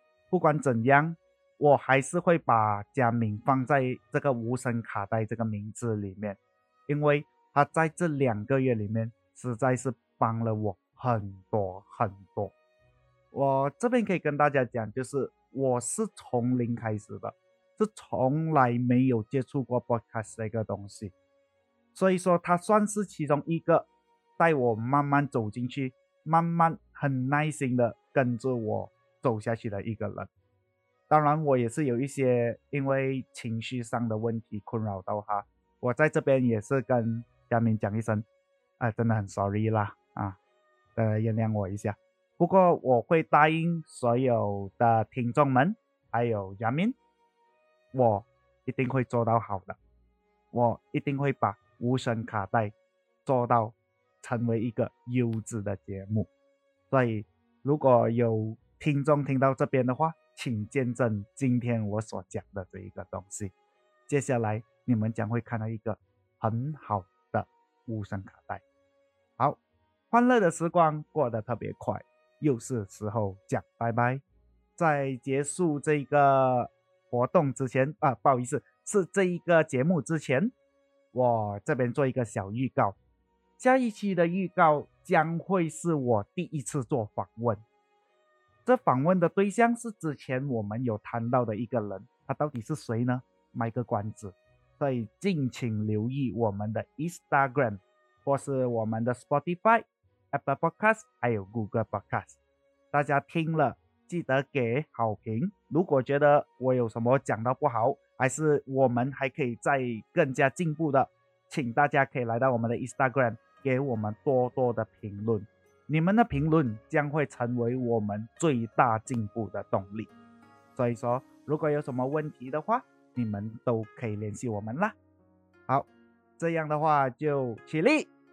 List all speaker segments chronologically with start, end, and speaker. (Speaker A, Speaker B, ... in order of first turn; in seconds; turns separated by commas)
Speaker A: 0.3-12.5, Speaker A: 13.3-21.1, Speaker A: 21.9-23.9, Speaker A: 24.4-30.3, Speaker A: 31.1-38.2, Speaker A: 38.8-40.4, Speaker A: 41.0-47.0, Speaker A: 47.9-49.8, Speaker A: 50.5-52.7, Speaker A: 53.3-56.3, Speaker A: 56.9-63.5, Speaker A: 64.1-68.6, Speaker A: 70.1-74.2, Speaker A: 74.8-80.5, Speaker A: 81.1-83.0, Speaker A: 83.6-87.6, Speaker A: 88.7-102.4, Speaker A: 102.9-120.1, Speaker A: 120.8-125.0, Speaker A: 126.4-128.1